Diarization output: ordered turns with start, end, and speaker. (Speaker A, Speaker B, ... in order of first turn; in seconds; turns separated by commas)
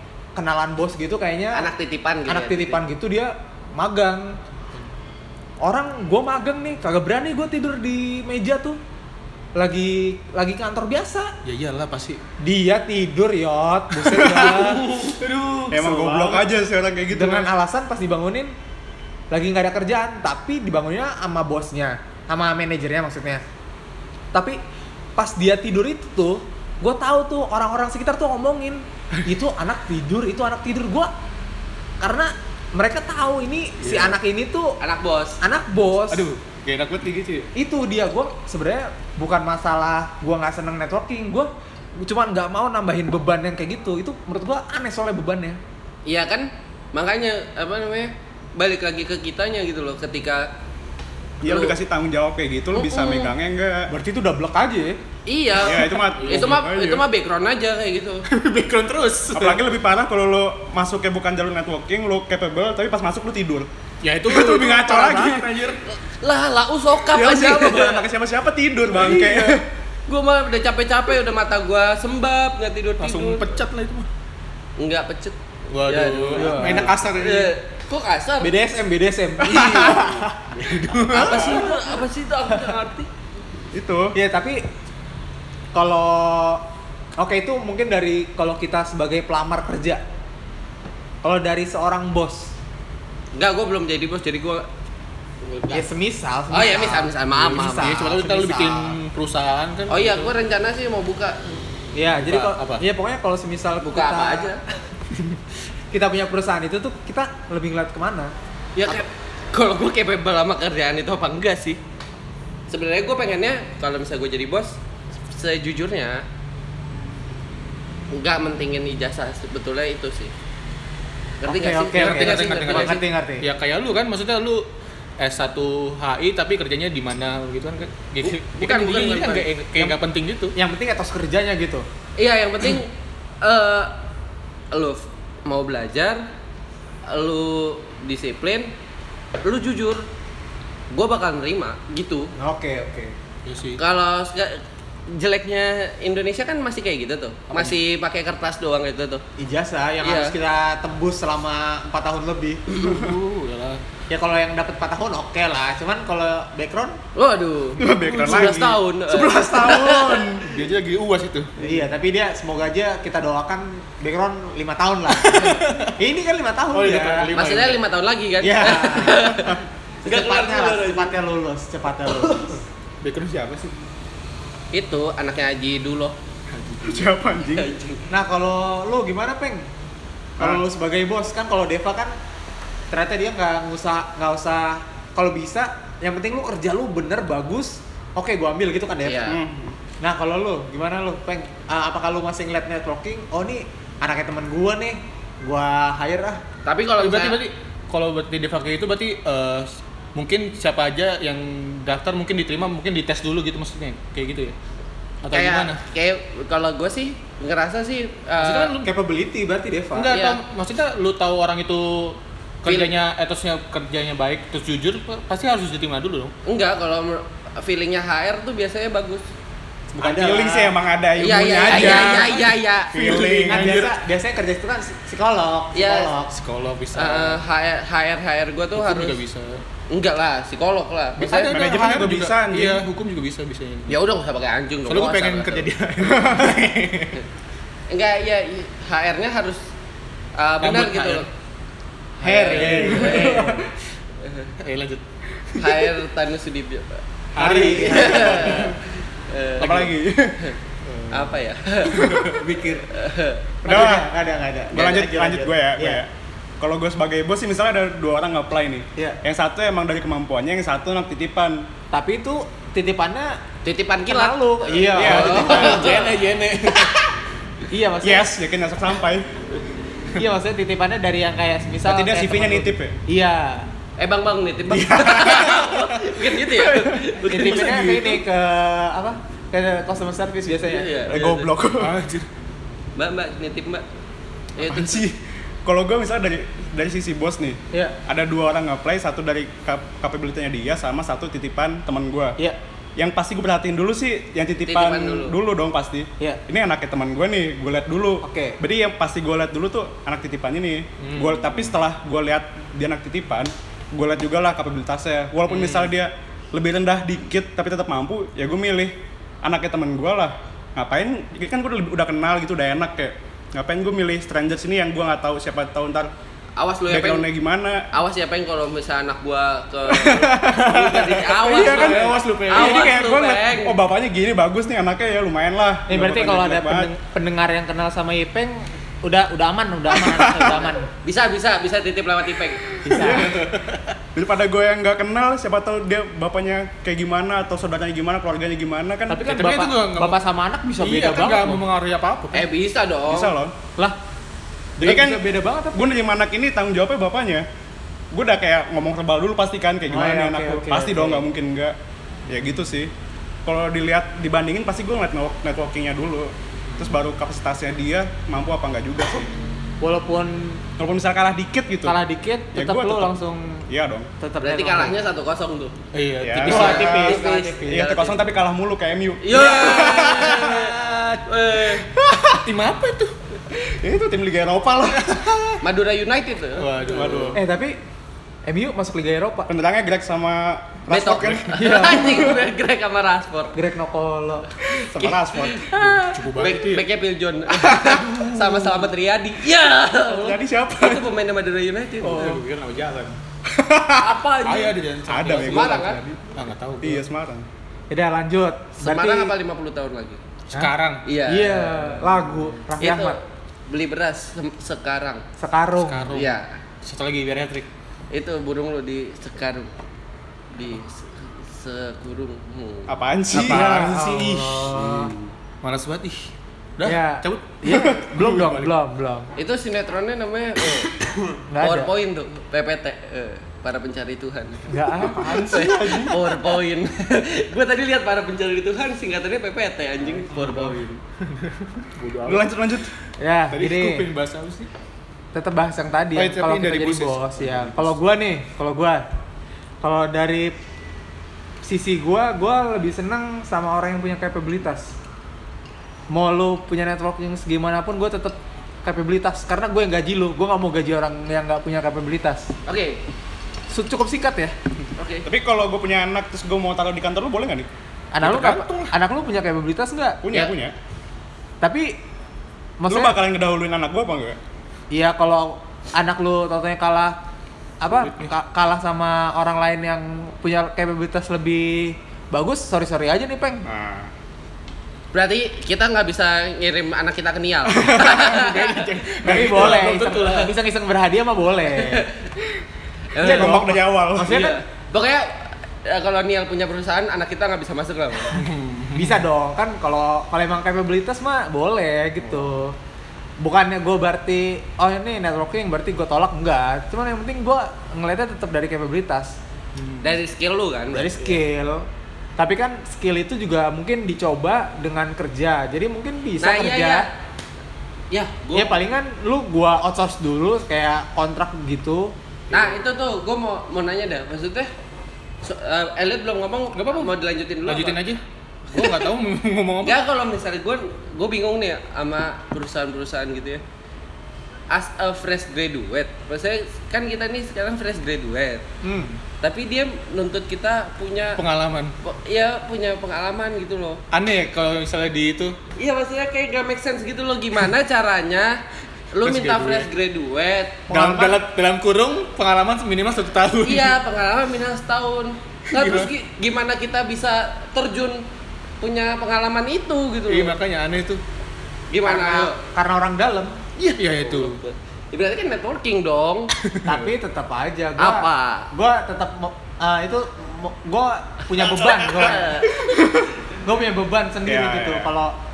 Speaker A: 0.3-1.7, Speaker B: 1.5-2.8, Speaker A: 2.2-4.4, Speaker A: 5.6-8.8, Speaker A: 9.6-11.3, Speaker C: 11.4-12.2, Speaker A: 12.4-15.0, Speaker C: 14.0-16.4, Speaker D: 14.2-14.5, Speaker D: 15.7-17.5, Speaker A: 15.7-16.4, Speaker A: 17.1-18.5, Speaker A: 19.3-23.4, Speaker A: 24.3-24.6, Speaker A: 25.1-31.1, Speaker A: 32.0-34.8, Speaker C: 33.8-34.2, Speaker B: 34.8-35.4, Speaker A: 35.4-36.3, Speaker C: 36.1-37.5, Speaker A: 37.5-45.6, Speaker B: 46.0-50.5, Speaker D: 51.4-53.9, Speaker B: 51.4-51.8, Speaker B: 52.7-53.3, Speaker A: 53.9-55.0, Speaker B: 55.3-58.2, Speaker D: 55.6-57.0, Speaker C: 56.2-56.6, Speaker C: 58.3-59.6, Speaker D: 59.3-63.7, Speaker C: 64.0-65.8, Speaker D: 64.2-65.5, Speaker B: 65.9-68.0, Speaker D: 67.1-69.6, Speaker B: 69.0-73.5, Speaker C: 73.0-74.1, Speaker B: 74.8-78.5, Speaker C: 75.7-77.5, Speaker A: 76.3-76.9, Speaker A: 78.4-80.5, Speaker B: 79.4-80.2, Speaker C: 79.7-81.7, Speaker B: 81.1-83.1, Speaker A: 81.2-81.8, Speaker D: 83.7-84.1, Speaker A: 84.1-84.6, Speaker A: 85.7-86.6, Speaker A: 87.2-90.0, Speaker A: 91.2-92.5, Speaker B: 93.3-94.7, Speaker B: 95.4-95.9, Speaker A: 95.7-98.9, Speaker B: 96.5-97.9, Speaker C: 97.4-100.3, Speaker B: 99.9-101.6, Speaker A: 101.9-104.5, Speaker C: 102.2-102.8, Speaker B: 103.8-104.6, Speaker A: 105.9-108.3, Speaker B: 108.8-111.8, Speaker B: 112.7-116.2, Speaker B: 118.1-120.3, Speaker B: 121.4-123.0, Speaker A: 121.4-123.5, Speaker C: 121.9-124.7, Speaker C: 125.2-130.6, Speaker B: 128.2-129.5, Speaker A: 130.6-131.8, Speaker B: 132.2-133.9, Speaker B: 134.7-136.2, Speaker B: 137.1-138.7, Speaker B: 139.4-140.0, Speaker B: 140.9-142.3, Speaker A: 142.4-143.2, Speaker C: 143.4-143.8, Speaker B: 143.8-149.2, Speaker A: 149.4-152.7, Speaker B: 150.0-150.3, Speaker C: 152.7-153.8, Speaker A: 154.1-157.0, Speaker B: 157.1-160.2, Speaker D: 157.8-160.4, Speaker C: 157.8-158.7, Speaker C: 160.4-161.5, Speaker A: 161.6-167.3, Speaker C: 165.1-165.9, Speaker C: 166.7-167.8, Speaker B: 167.3-171.1, Speaker A: 168.4-172.6, Speaker C: 173.0-173.7, Speaker B: 174.7-176.1, Speaker C: 176.5-177.1, Speaker D: 176.8-177.7, Speaker B: 177.5-178.1, Speaker A: 178.1-179.7, Speaker D: 180.4-180.6, Speaker A: 180.4-182.1, Speaker A: 182.9-189.4, Speaker B: 189.0-189.4, Speaker D: 189.3-189.8, Speaker A: 190.0-196.4, Speaker B: 196.6-197.4, Speaker C: 197.0-204.6, Speaker C: 205.2-205.8, Speaker B: 205.3-208.7, Speaker C: 208.4-208.9, Speaker A: 208.8-210.1, Speaker C: 209.9-216.3, Speaker B: 210.1-210.4, Speaker B: 212.7-212.9, Speaker B: 216.4-219.2, Speaker D: 219.9-222.4, Speaker A: 220.0-220.8, Speaker B: 221.2-222.9, Speaker C: 221.7-224.0, Speaker D: 222.9-223.8, Speaker A: 223.2-226.3, Speaker B: 225.7-226.1, Speaker C: 226.3-227.4, Speaker B: 226.9-229.2, Speaker C: 228.7-229.6, Speaker B: 229.9-231.5, Speaker C: 231.2-233.9, Speaker D: 231.4-232.8, Speaker B: 233.9-235.7, Speaker C: 234.9-237.2, Speaker B: 237.9-239.6, Speaker B: 240.3-241.3, Speaker C: 240.6-241.2, Speaker B: 242.2-243.6, Speaker A: 242.2-243.7, Speaker C: 242.5-243.5, Speaker B: 244.2-244.5, Speaker C: 244.6-246.0, Speaker B: 245.6-249.9, Speaker C: 247.3-248.8, Speaker A: 247.3-248.6, Speaker D: 249.6-250.4, Speaker C: 250.8-251.3, Speaker B: 251.1-252.2, Speaker D: 251.9-252.4, Speaker C: 252.0-252.8, Speaker A: 252.4-252.7, Speaker B: 252.9-253.4, Speaker A: 253.6-256.0, Speaker D: 253.6-254.1, Speaker D: 254.7-261.7, Speaker A: 261.9-263.4, Speaker B: 263.6-266.2, Speaker A: 264.1-266.0, Speaker D: 264.9-265.9, Speaker C: 264.9-267.1, Speaker A: 267.7-268.3, Speaker D: 268.0-269.3, Speaker A: 270.1-273.7, Speaker D: 271.8-272.9, Speaker B: 274.0-277.9, Speaker D: 274.7-275.6, Speaker C: 275.3-275.6, Speaker A: 277.3-281.0, Speaker C: 277.3-278.2, Speaker B: 280.7-281.5, Speaker D: 281.1-281.9, Speaker C: 281.8-282.3, Speaker B: 282.9-283.8, Speaker B: 284.6-285.0, Speaker D: 284.6-292.4, Speaker D: 293.0-316.1, Speaker B: 294.6-295.3, Speaker A: 298.2-298.6, Speaker C: 301.0-301.8, Speaker C: 305.4-305.9, Speaker B: 316.6-317.3, Speaker D: 316.9-317.8, Speaker B: 317.9-323.8, Speaker D: 319.9-326.9, Speaker C: 321.4-323.0, Speaker A: 325.9-330.9, Speaker D: 330.0-330.6, Speaker B: 331.0-332.8, Speaker A: 332.8-333.3, Speaker D: 332.9-333.4, Speaker C: 333.0-333.8, Speaker D: 334.1-339.3, Speaker A: 339.1-341.6, Speaker C: 339.2-340.2, Speaker C: 340.8-342.5, Speaker B: 342.3-343.3, Speaker D: 343.1-343.6, Speaker A: 344.8-345.9, Speaker D: 344.8-347.4, Speaker D: 348.1-351.7, Speaker A: 349.9-351.2, Speaker D: 352.3-352.9, Speaker D: 353.4-359.3, Speaker A: 359.8-360.6, Speaker D: 360.8-362.0, Speaker A: 361.8-363.7, Speaker D: 362.5-363.1, Speaker D: 363.7-364.1, Speaker A: 364.2-364.9, Speaker B: 364.4-365.7, Speaker C: 365.9-367.0, Speaker D: 366.2-370.7, Speaker B: 366.4-368.3, Speaker A: 366.5-367.9, Speaker B: 369.2-371.9, Speaker D: 372.0-372.4, Speaker C: 372.3-373.1, Speaker D: 373.5-375.5, Speaker B: 375.6-377.2, Speaker C: 376.6-377.4, Speaker D: 376.9-377.4, Speaker A: 377.3-377.8, Speaker A: 378.4-379.5, Speaker D: 379.5-382.2, Speaker B: 380.9-383.6, Speaker A: 381.6-382.4, Speaker A: 383.5-384.5, Speaker D: 384.7-385.7, Speaker B: 384.8-392.4, Speaker C: 385.8-386.8, Speaker D: 387.6-388.6, Speaker D: 390.1-391.1, Speaker A: 392.0-392.4, Speaker C: 392.1-393.2, Speaker D: 393.5-394.2, Speaker B: 394.0-394.8, Speaker C: 394.4-397.0, Speaker D: 395.1-396.2, Speaker B: 395.4-396.0, Speaker D: 396.8-397.5, Speaker A: 397.9-399.3, Speaker B: 398.8-400.2, Speaker C: 400.5-401.0, Speaker B: 401.0-402.2, Speaker A: 401.3-403.2, Speaker B: 402.8-405.2, Speaker A: 405.4-406.1, Speaker C: 405.8-407.7, Speaker B: 406.1-406.4, Speaker B: 408.1-409.7, Speaker B: 410.5-412.9, Speaker D: 412.9-415.3, Speaker A: 413.3-415.1, Speaker C: 415.6-417.6, Speaker A: 416.8-419.3, Speaker D: 417.7-418.1, Speaker C: 418.1-418.7, Speaker B: 419.4-420.9, Speaker A: 421.5-421.9, Speaker B: 421.6-424.7, Speaker A: 424.7-426.1, Speaker D: 425.1-426.2, Speaker B: 426.0-430.8, Speaker C: 430.0-432.5, Speaker D: 432.2-432.9, Speaker A: 433.2-434.1, Speaker C: 433.5-434.7, Speaker A: 435.3-439.1, Speaker C: 436.1-437.9, Speaker D: 436.2-437.0, Speaker A: 439.8-440.6, Speaker A: 441.6-444.9, Speaker A: 446.1-452.5, Speaker B: 452.6-453.0, Speaker A: 453.7-454.5, Speaker B: 455.0-455.3, Speaker D: 455.2-457.7, Speaker A: 458.1-460.2, Speaker C: 458.2-458.9, Speaker D: 460.2-460.7, Speaker A: 461.6-461.9, Speaker A: 462.8-463.2, Speaker D: 462.9-464.4, Speaker A: 464.9-467.2, Speaker A: 467.8-473.6, Speaker C: 467.9-468.3, Speaker D: 473.6-474.1, Speaker B: 475.1-478.9, Speaker C: 477.9-480.5, Speaker A: 479.2-482.1, Speaker B: 481.7-482.3, Speaker B: 483.1-483.6, Speaker A: 483.2-484.6, Speaker D: 483.2-484.4, Speaker B: 484.2-488.4, Speaker C: 488.3-489.3, Speaker A: 488.9-492.8, Speaker C: 492.2-492.5, Speaker A: 493.4-499.4, Speaker C: 499.8-500.1, Speaker B: 500.0-501.4, Speaker A: 500.9-501.9, Speaker A: 502.4-507.1, Speaker B: 506.4-507.1, Speaker B: 508.1-508.7, Speaker A: 508.5-512.1, Speaker B: 512.5-514.7, Speaker B: 515.4-518.0, Speaker C: 516.7-518.2, Speaker C: 518.7-520.0, Speaker B: 518.7-519.0, Speaker B: 519.8-523.6, Speaker B: 524.7-528.6, Speaker A: 528.8-529.2, Speaker B: 529.4-531.4, Speaker C: 531.4-531.9, Speaker B: 532.0-534.0, Speaker C: 534.1-535.6, Speaker B: 535.8-538.6, Speaker B: 539.1-540.8, Speaker C: 539.2-539.9, Speaker A: 540.9-541.4, Speaker C: 540.9-544.0, Speaker B: 543.6-548.2, Speaker C: 545.7-546.1, Speaker B: 548.8-550.5, Speaker C: 550.3-551.2, Speaker B: 551.9-552.6, Speaker A: 552.0-553.6, Speaker C: 553.8-554.6, Speaker B: 554.2-556.5, Speaker C: 556.6-557.1, Speaker A: 556.8-562.5, Speaker B: 558.0-558.7, Speaker B: 562.1-562.7, Speaker D: 562.7-563.4, Speaker A: 563.6-565.4, Speaker D: 564.4-565.1